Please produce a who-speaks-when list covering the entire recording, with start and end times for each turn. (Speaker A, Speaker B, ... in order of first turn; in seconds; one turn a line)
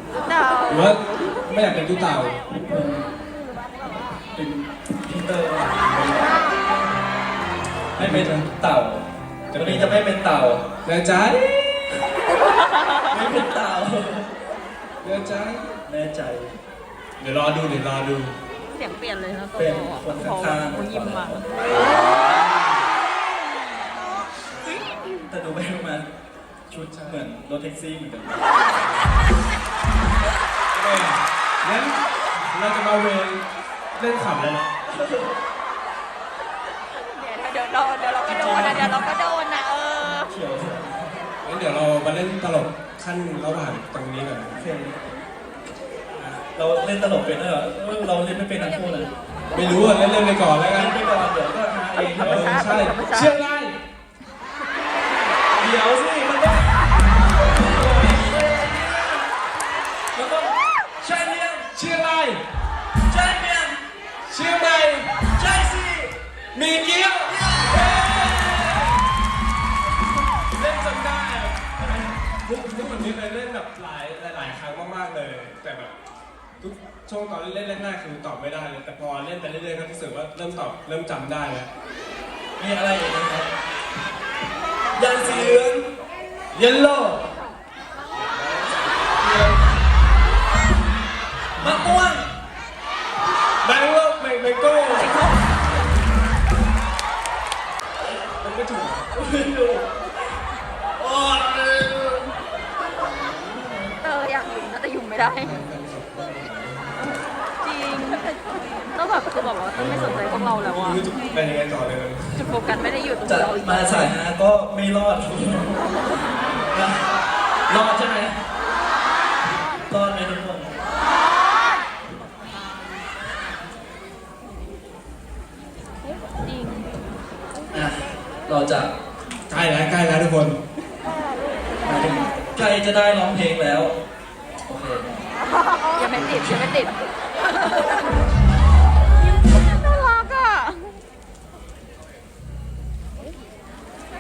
Speaker A: 0.2-0.9
Speaker B: 0.7-2.4
Speaker C: 2.6-3.1
Speaker C: 4.3-6.3
Speaker B: 8.0-8.5
Speaker C: 8.0-10.6
Speaker B: 9.5-10.0
Speaker B: 10.8-11.8
Speaker C: 13.1-14.3
Speaker B: 15.0-15.6
Speaker C: 15.9-16.5
Speaker B: 17.2-18.4
Speaker A: 18.7-21.4
Speaker C: 19.5-22.0
Speaker C: 25.3-26.1
Speaker C: 26.7-28.5
Speaker B: 26.9-27.2
Speaker B: 30.7-33.5
Speaker B: 34.0-34.7
Speaker C: 34.9-35.4
Speaker A: 36.9-40.3
Speaker C: 38.2-39.1
Speaker C: 40.0-41.3
Speaker B: 41.4-44.6
Speaker C: 44.5-45.1
Speaker C: 46.1-49.1
Speaker B: 49.5-51.0
Speaker C: 50.7-52.9
Speaker A: 52.1-53.3
Speaker B: 52.2-53.8
Speaker C: 55.5-56.8
Speaker C: 57.4-59.3
Speaker C: 60.1-61.7
Speaker B: 61.7-62.4
Speaker C: 63.0-63.8
Speaker B: 64.3-65.2
Speaker C: 65.3-66.1
Speaker B: 66.5-69.0
Speaker C: 67.3-68.8
Speaker B: 70.5-75.9
Speaker B: 76.6-81.7
Speaker C: 82.6-83.5
Speaker C: 84.9-85.9
Speaker B: 85.1-85.7
Speaker B: 86.5-87.3
Speaker B: 88.1-89.6
Speaker B: 91.6-92.0
Speaker C: 91.6-92.2
Speaker B: 93.6-95.3
Speaker A: 94.9-95.4
Speaker B: 98.4-99.1
Speaker C: 99.1-99.9
Speaker C: 101.0-102.3
Speaker C: 103.3-103.7
Speaker A: 104.0-105.6
Speaker B: 105.2-107.2
Speaker A: 107.6-111.1
Speaker B: 109.8-112.6
Speaker A: 112.3-114.1
Speaker C: 113.2-118.4
Speaker C: 119.9-120.8
Speaker C: 127.7-128.9
Speaker B: 129.5-130.6
Speaker C: 131.8-134.0
Speaker C: 134.7-135.1
Speaker A: 135.9-136.9
Speaker C: 136.1-136.7
Speaker A: 139.4-140.9